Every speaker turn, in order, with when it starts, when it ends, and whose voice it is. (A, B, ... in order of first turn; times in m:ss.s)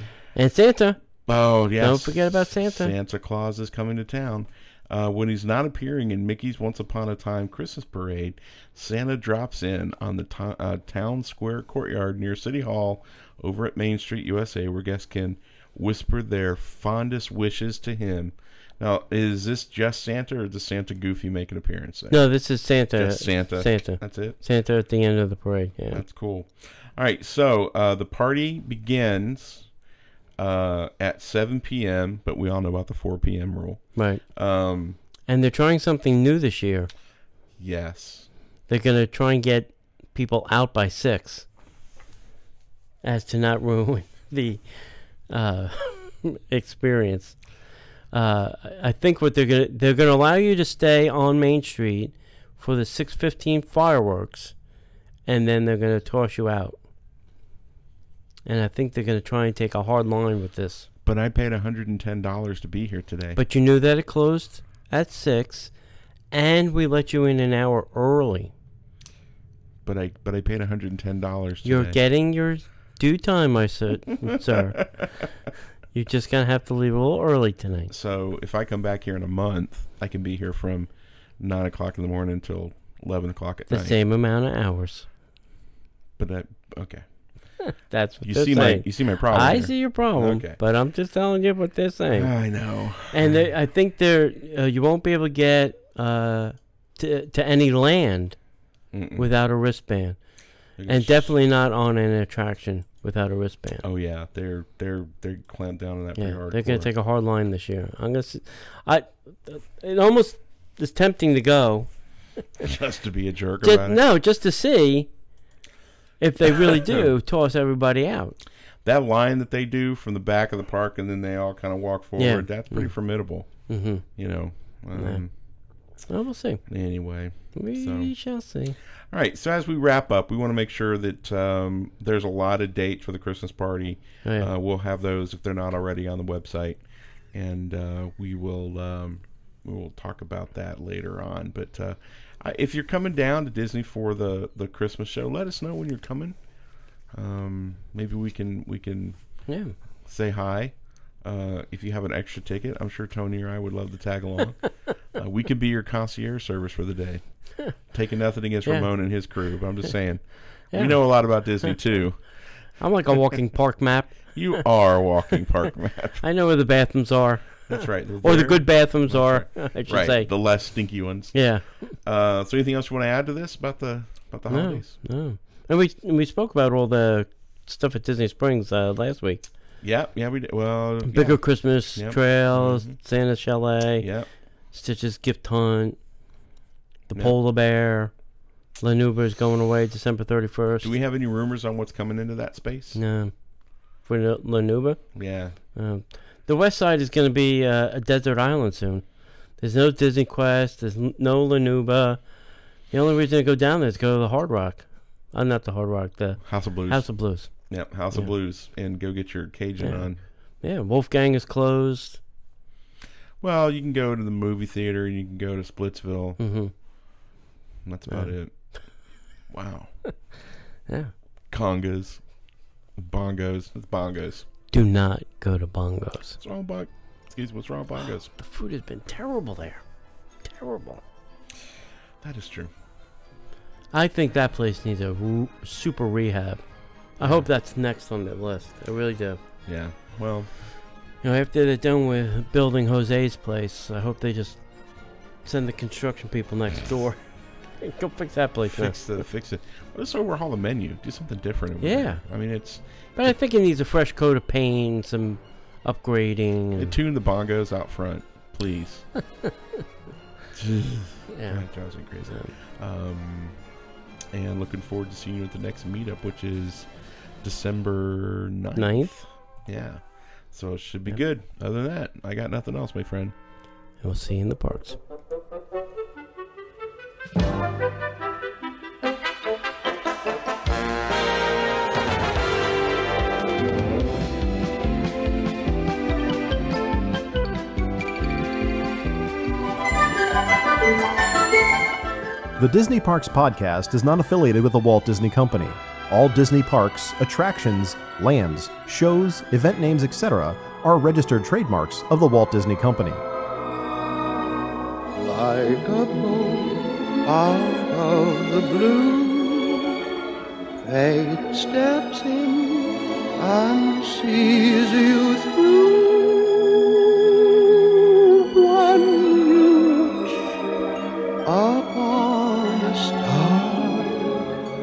0:00.4-0:01.0 A
0:01.3-0:22.2 B
0:01.8-0:02.9 A
0:22.1-0:26.0 A
0:23.0-0:24.4 B
0:25.9-0:29.7 B
0:30.4-0:35.0 B
0:34.0-0:34.2 A
0:35.3-0:36.9 A
0:37.6-0:38.3 B
0:38.7-0:41.5 A
0:43.0-0:47.4 A
0:48.1-0:54.6 A
0:55.3-0:56.8 A
0:58.5-1:00.9 A
1:01.0-1:03.4 B
1:03.4-1:05.7 A
1:06.3-1:08.5 A
1:09.8-1:12.0 B
1:11.6-1:14.9 A
1:14.3-1:15.1 B
1:15.9-1:17.9 A
1:17.9-1:24.0 B
1:23.7-1:25.1 A
1:26.2-1:27.0 B
1:27.9-1:32.3 A
1:28.2-1:30.6 B
1:32.1-1:33.4 B
1:33.1-1:38.4 A
1:38.9-1:39.3 B
1:39.2-1:40.2 A
1:40.8-1:43.8 A
1:40.8-1:41.3 B
1:43.8-1:46.9 B
1:46.2-1:52.1 A
1:52.6-1:54.0 B
1:53.6-1:55.1 A
1:56.2-1:58.4 A
1:56.6-1:57.1 B
1:58.8-2:05.3 B
2:02.2-2:02.9 A
2:03.7-2:04.0 A
2:05.0-2:05.2 A
2:06.1-2:06.7 A
2:06.7-2:08.1 B
2:07.6-2:08.8 A
2:09.1-2:16.8 B
2:14.2-2:14.5 A
2:17.3-2:26.4 B
2:27.1-2:29.5 B
2:29.5-2:29.8 A
2:30.0-2:42.5 B
2:40.7-2:41.0 A
2:42.8-2:44.6 A
2:44.3-2:46.2 B
2:46.2-2:50.3 A
2:47.7-2:55.0 B
2:51.3-2:51.9 A
2:54.5-2:59.4 A
2:59.8-3:03.0 B
3:01.1-3:04.1 A
3:04.0-3:04.3 B
3:04.7-3:06.0 A
3:07.1-3:08.1 A
3:08.8-3:10.9 A
3:10.8-3:13.0 B
3:13.0-3:13.3 A
3:14.0-3:15.1 A
3:15.2-3:15.6 B
3:15.7-3:22.2 A
3:22.9-3:28.3 A
3:26.4-3:30.2 B
3:29.8-3:30.1 A
3:30.6-3:32.2 A
3:33.4-3:36.4 B
3:36.4-3:36.7 A
3:37.8-3:38.6 B
3:39.5-3:39.9 B
3:40.9-3:41.1 A
3:41.5-3:42.2 B
3:43.0-3:44.5 B
3:44.7-3:46.4 A
3:46.4-3:48.3 B
3:48.3-3:49.8 A
3:50.4-3:51.0 A
3:52.2-3:52.7 B
3:53.9-3:59.4 A
3:57.2-3:57.5 B
3:59.7-4:00.5 B
4:01.2-4:09.0 A
4:08.7-4:13.4 B
4:11.8-4:12.2 A
4:13.2-4:17.0 A
4:16.8-4:19.2 B
4:20.5-4:23.6 B
4:21.3-4:21.6 A
4:24.3-4:26.9 B
4:27.4-4:33.4 B
4:28.8-4:29.1 A
4:34.0-4:35.0 A
4:52.6-5:03.2 C
5:05.2-5:10.0 D
5:10.8-5:20.6 D
5:21.4-5:24.4 D